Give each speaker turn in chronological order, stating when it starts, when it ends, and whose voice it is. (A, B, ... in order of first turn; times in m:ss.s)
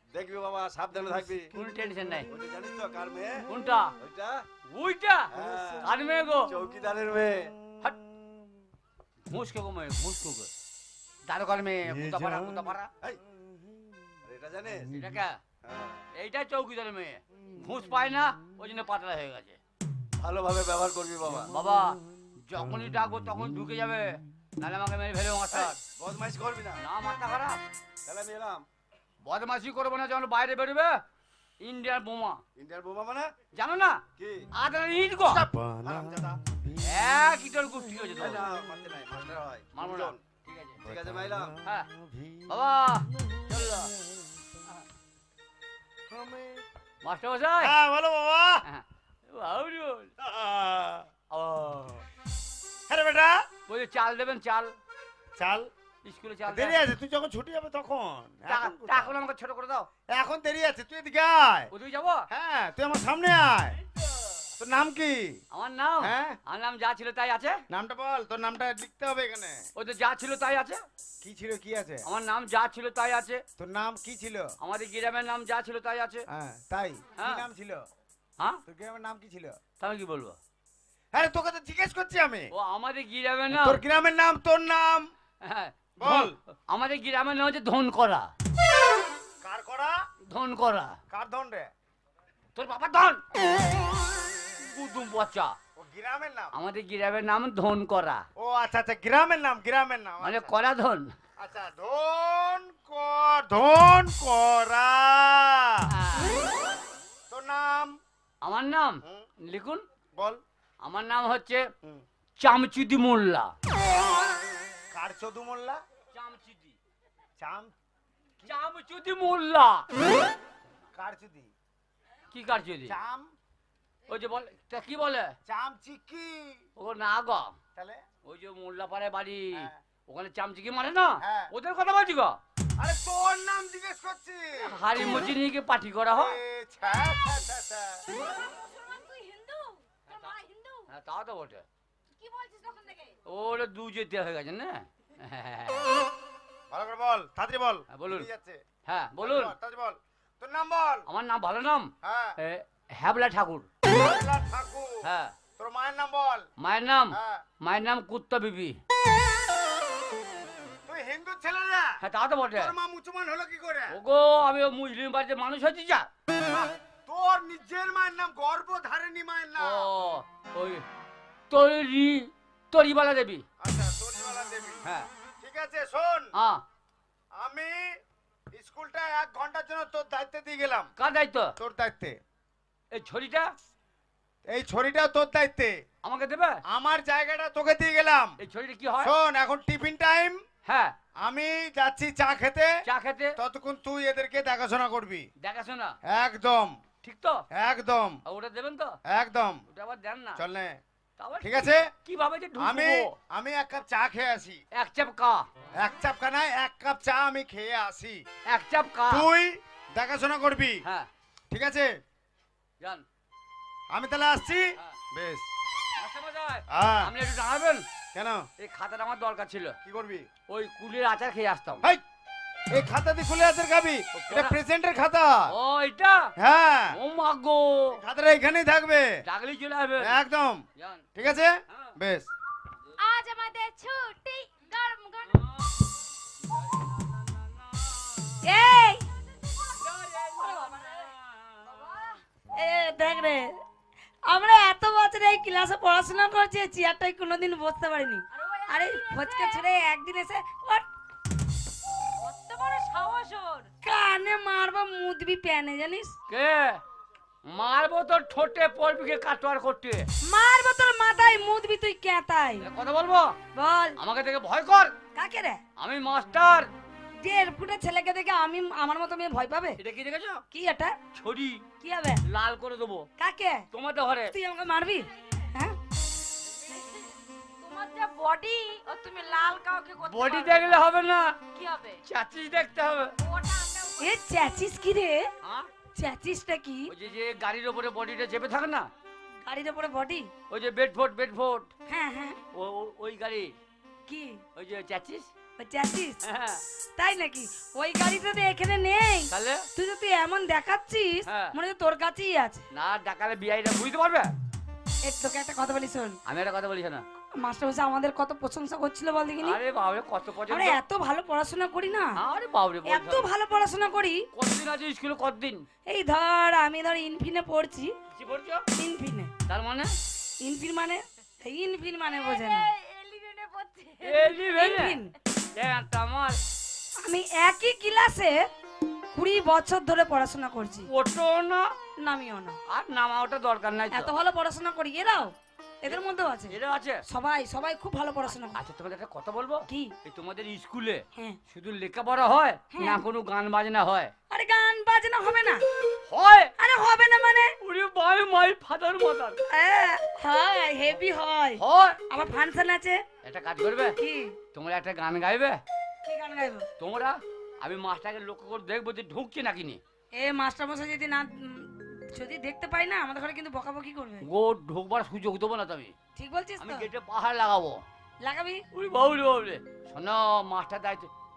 0:00.1-0:01.5 A
0:01.1-0:01.8 B
0:01.5-0:02.3 C
0:02.3-0:03.4 A
0:03.5-0:04.0 C
0:04.0-0:04.4 A
0:04.7-0:06.5 C
0:05.3-0:05.9 A
0:05.3-0:08.4 B
0:06.5-0:07.5 A
0:09.3-0:10.5 C
0:11.2-0:12.9 C
0:11.9-0:13.9 B
0:14.2-0:14.9 A
0:14.8-0:15.2 B
0:14.9-0:15.4 C
0:15.6-0:16.0 A
0:16.1-0:19.6 C
0:17.4-0:17.8 B
0:20.2-0:21.5 A
0:21.3-0:21.8 B
0:21.5-0:25.8 C
0:22.6-0:23.6 B
0:25.5-0:26.8 A
0:26.8-0:27.6 C
0:28.0-0:28.6 A
0:29.2-0:31.0 C
0:31.6-0:32.4 C
0:32.6-0:33.3 A
0:33.5-0:35.4 C
0:34.2-0:34.5 A
0:35.2-0:37.1 B
0:35.8-0:36.4 A
0:36.8-0:38.4 C
0:38.0-0:38.3 B
0:38.2-0:40.2 A
0:39.7-0:40.8 C
0:40.8-0:44.5 B
0:40.8-0:41.5 A
0:42.5-0:43.9 C
0:46.1-0:46.6 B
0:47.0-0:47.7 C
0:47.6-0:48.6 B
0:48.6-0:50.1 C
0:50.2-0:51.1 B
0:51.3-0:52.0 C
0:52.9-0:53.4 B
0:53.7-0:54.8 C
0:55.4-0:55.7 B
0:56.0-0:56.8 C
0:56.5-0:59.2 B
0:58.5-0:59.9 C
1:00.1-1:01.7 B
1:01.7-1:02.2 C
1:02.3-1:03.8 B
1:04.6-1:05.4 B
1:05.5-1:07.6 C
1:06.0-1:06.4 B
1:07.7-1:09.6 B
1:09.8-1:10.8 C
1:11.2-1:12.0 B
1:12.0-1:13.4 C
1:13.6-1:14.5 B
1:14.6-1:16.2 C
1:16.3-1:17.9 B
1:17.1-1:17.4 C
1:18.7-1:19.6 B
1:19.8-1:20.4 C
1:21.1-1:22.5 B
1:22.5-1:23.8 C
1:23.5-1:25.1 B
1:25.4-1:28.3 C
1:26.0-1:26.3 B
1:29.4-1:30.0 B
1:30.2-1:31.0 C
1:31.1-1:31.7 B
1:32.5-1:33.2 C
1:34.6-1:35.6 C
1:35.8-1:36.5 B
1:36.5-1:38.2 C
1:38.4-1:40.5 B
1:40.2-1:41.1 C
1:41.4-1:45.9 B
1:45.9-1:46.3 C
1:47.3-1:48.0 B
1:48.4-1:49.8 C
1:50.2-1:50.4 B
1:50.8-1:51.7 C
1:52.4-1:53.5 C
1:54.9-1:55.8 B
1:56.1-1:56.8 C
1:57.4-1:57.7 B
1:58.4-1:59.9 C
2:00.9-2:01.5 B
2:02.3-2:03.0 C
2:02.9-2:03.3 B
2:04.1-2:05.3 C
2:05.5-2:06.6 B
2:06.8-2:07.6 C
2:07.7-2:08.0 B
2:08.2-2:12.4 C
2:11.2-2:11.5 B
2:12.8-2:14.7 B
2:14.6-2:16.4 C
2:16.1-2:18.0 B
2:18.1-2:20.9 D
2:20.9-2:21.6 C
2:22.1-2:23.2 D
2:23.2-2:25.8 C
2:26.7-2:28.6 B
2:27.9-2:28.3 C
2:28.8-2:29.5 C
2:29.2-2:31.0 B
2:31.1-2:33.7 C
2:32.0-2:32.4 B
2:33.8-2:35.0 B
2:35.0-2:35.3 C
2:35.6-2:36.5 B
2:36.6-2:38.8 C
2:37.1-2:37.4 B
2:40.8-2:42.0 B
2:42.0-2:42.7 C
2:42.5-2:44.0 B
2:43.9-2:46.1 C
2:46.5-2:49.9 B
2:49.6-2:50.8 C
2:51.5-2:53.4 C
2:53.6-2:54.8 B
2:54.8-2:55.1 C
2:55.4-2:56.3 B
2:56.3-2:56.6 C
2:57.3-2:58.0 B
2:58.5-3:00.9 B
3:01.0-3:01.5 C
3:01.6-3:02.2 B
3:02.9-3:03.5 C
3:04.4-3:05.8 B
3:06.0-3:06.6 C
3:06.7-3:08.4 B
3:08.4-3:09.1 C
3:09.0-3:10.4 B
3:10.6-3:10.9 C
3:11.2-3:12.7 B
3:12.8-3:13.4 C
3:13.4-3:15.3 B
3:15.4-3:15.9 C
3:16.0-3:16.8 B
3:17.0-3:17.4 C
3:17.5-3:18.2 B
3:18.2-3:19.0 C
3:19.1-3:19.6 B
3:19.7-3:20.4 C
3:20.4-3:20.8 B
3:21.2-3:23.1 C
3:21.4-3:21.9 B
3:22.6-3:24.6 B
3:24.7-3:25.5 C
3:25.7-3:28.2 B
3:28.5-3:29.3 C
3:29.1-3:30.8 B
3:31.5-3:31.9 B
3:32.8-3:33.0 C
3:33.9-3:35.5 B
3:36.0-3:37.8 C
3:36.7-3:37.1 B
3:38.1-3:38.5 B
3:38.6-3:39.8 C
3:39.8-3:40.3 B
3:40.5-3:41.8 C
3:42.7-3:45.5 B
3:44.1-3:44.6 C
3:45.5-3:46.3 C
3:46.4-3:47.0 B
3:46.9-3:48.0 C
3:47.9-3:49.2 B
3:49.2-3:50.2 C
3:50.0-3:50.6 B
3:50.8-3:51.0 C
3:51.2-3:52.3 B
3:51.7-3:51.9 C
3:53.0-3:55.3 D
3:53.1-3:54.6 E
3:55.2-3:55.9 C
3:56.4-3:58.4 C
3:58.4-3:59.0 E
3:59.4-3:59.8 D
3:59.8-4:01.7 C
4:00.4-4:01.1 D
4:01.7-4:02.2 D
4:02.5-4:03.6 E
4:04.3-4:10.8 E
4:08.3-4:09.6 D
4:12.2-4:13.7 D
4:13.8-4:16.1 E
4:16.3-4:16.8 C
4:17.5-4:20.1 C
4:20.2-4:22.6 E
4:22.6-4:23.4 C
4:23.5-4:24.0 E
4:24.0-4:24.9 C
4:25.2-4:25.6 E
4:25.8-4:26.7 C
4:27.2-4:29.8 E
4:29.8-4:30.4 C
4:30.5-4:31.0 E
4:31.1-4:31.7 C
4:31.8-4:32.2 E
4:32.2-4:33.1 C
4:33.2-4:33.6 E
4:33.7-4:34.4 C
4:34.3-4:35.8 E
4:36.6-4:40.7 D
4:40.0-4:41.4 C
4:41.5-4:42.0 D
4:42.0-4:43.2 C
4:43.2-4:44.1 D
4:44.0-4:45.3 E
4:45.4-4:45.7 C
4:46.0-4:46.9 E
4:46.9-4:48.9 C
4:49.4-4:50.3 E
4:50.5-4:51.7 C
4:51.9-4:52.4 E
4:52.5-4:53.6 C
4:54.1-4:54.4 E
4:54.6-4:55.3 C
4:55.6-4:56.2 E
4:56.2-4:56.6 C
4:57.0-5:02.6 E
4:59.3-4:59.7 C
5:01.2-5:01.5 C
5:02.7-5:04.3 C
5:05.0-5:06.2 E
5:06.2-5:07.0 C
5:07.4-5:09.6 E
5:09.4-5:10.8 C
5:10.4-5:12.2 E
5:12.2-5:13.3 C
5:12.8-5:14.2 E
5:14.3-5:15.6 C
5:15.9-5:17.9 E
5:18.1-5:18.6 C
5:18.8-5:19.3 E
5:19.5-5:19.9 C
5:20.4-5:22.7 E
5:22.1-5:24.4 D
5:24.0-5:25.0 C
5:24.4-5:25.1 E
5:25.6-5:26.4 C
5:27.0-5:28.4 E
5:29.1-5:30.9 E
5:30.9-5:31.7 C
5:32.0-5:32.6 E
5:32.7-5:34.1 C
5:33.9-5:36.6 E
5:35.9-5:37.0 C
5:37.1-5:38.6 E
5:38.3-5:44.1 C
5:42.7-5:43.0 E
5:44.3-5:45.6 E
5:46.1-5:46.5 C
5:46.6-5:47.5 E
5:47.6-5:49.4 C
5:49.5-5:53.0 E
5:51.6-5:52.0 C
5:53.2-5:54.0 C
5:54.0-5:54.3 E
5:54.5-5:55.6 C
5:56.0-5:56.6 E
5:56.8-5:59.8 C
6:00.2-6:04.2 E
6:04.2-6:05.9 C
6:06.2-6:06.9 E
6:06.6-6:07.8 C
6:08.2-6:08.6 E
6:08.7-6:11.1 C